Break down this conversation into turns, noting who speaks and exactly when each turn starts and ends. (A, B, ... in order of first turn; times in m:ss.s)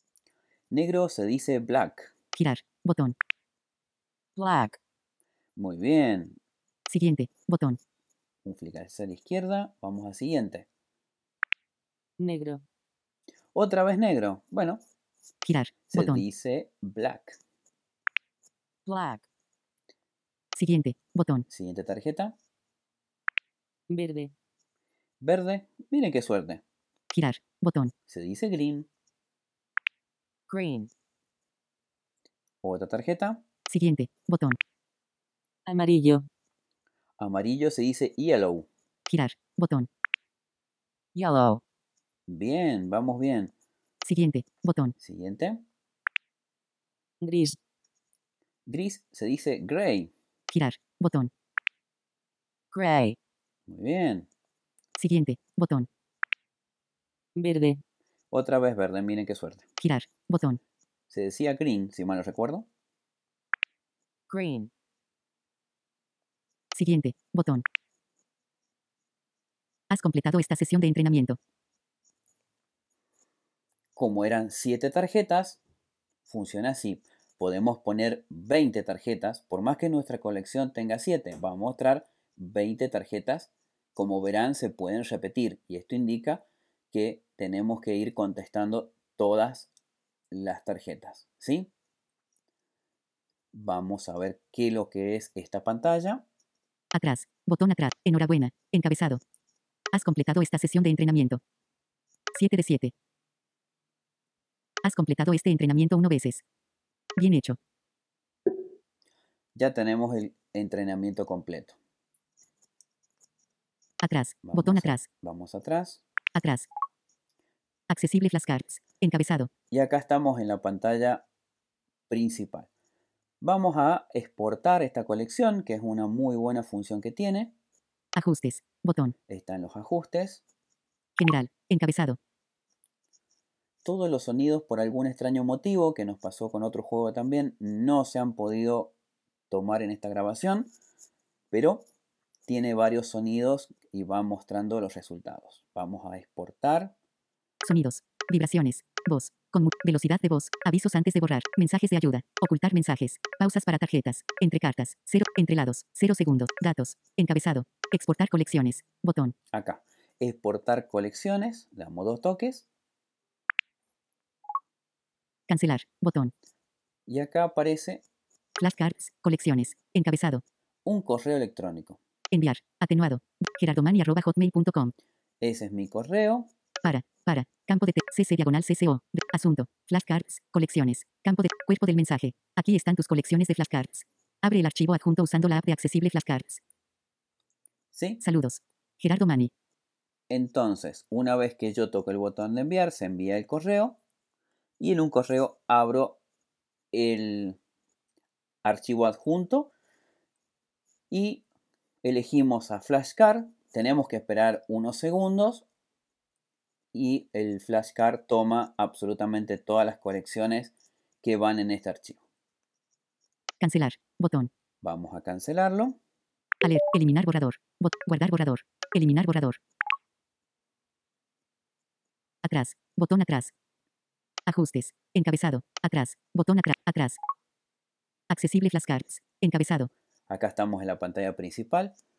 0:00.7-0:02.1 A
0:02.3-0:03.2 B
0:04.4-0:04.8 C
0:05.6-0:06.4 A
0:06.9-0:07.8 B
0:08.4-0:10.7 A
0:12.2-0:12.6 C
0:13.5-0:14.8 A
0:15.4-0:16.2 B
0:15.9-0:17.4 A
0:18.8-0:19.3 C
0:20.5-0:21.4 B
0:21.5-0:22.4 A
0:23.9-0:24.3 C
0:25.2-0:26.6 A
0:27.1-0:27.9 B
0:28.1-0:28.9 A
0:30.5-0:30.9 C
0:32.6-0:33.4 A
0:33.7-0:34.6 B
0:35.6-0:36.3 C
0:37.2-0:38.7 A
0:39.1-0:39.9 B
0:41.1-0:41.6 C
0:42.3-0:43.5 A
0:44.0-0:45.0 B
0:45.0-0:45.6 A
0:47.2-0:47.6 C
0:48.6-0:50.1 A
0:50.5-0:51.3 B
0:52.7-0:53.2 C
0:53.7-0:54.3 A
0:55.0-0:55.9 B
0:57.4-0:57.8 C
0:58.3-0:59.7 A
0:59.8-1:00.6 B
1:01.1-1:02.7 A
1:04.3-1:04.7 C
1:06.7-1:07.6 B
1:09.9-1:11.4 B
1:14.0-1:15.6 A
1:16.2-1:29.7 A
1:30.3-1:31.7 A
1:33.5-1:36.2 A
1:36.9-1:39.2 B
1:39.9-1:41.4 B
1:42.3-1:42.9 B
1:44.8-1:46.4 B
1:47.2-1:47.6 B
1:49.5-1:51.8 A
1:54.0-1:55.1 B
1:54.4-1:56.0 A
1:56.3-1:56.7 B
1:57.9-1:59.5 B
1:59.7-2:01.2 A
2:02.1-2:02.7 A
2:03.4-2:07.5 A
2:08.2-2:09.2 B
2:09.3-2:10.4 A
2:11.2-2:12.2 B
2:13.8-2:18.9 A
2:19.5-2:20.7 A
2:21.5-2:21.9 A
2:22.5-2:26.9 A
2:27.6-2:39.4 B
2:39.5-2:42.6 A
2:45.5-2:46.3 B
2:47.1-2:48.0 A
2:48.6-2:50.4 B
2:50.8-2:52.0 A
2:52.3-2:54.9 B
2:55.4-2:56.5 A
2:56.8-3:06.6 B
3:07.9-3:08.2 A
3:08.2-3:09.5 B
3:10.3-3:14.0 A
3:14.8-3:16.2 A
3:16.9-3:17.6 A
3:18.6-3:19.7 A
3:21.1-3:21.4 A
3:22.0-3:25.7 A
3:26.9-3:32.2 A
3:33.6-3:34.5 B
3:34.8-3:36.0 A
3:36.6-3:39.6 B
3:42.4-3:43.5 B
3:44.5-3:47.2 B
3:48.3-3:49.9 B
3:50.3-3:52.0 A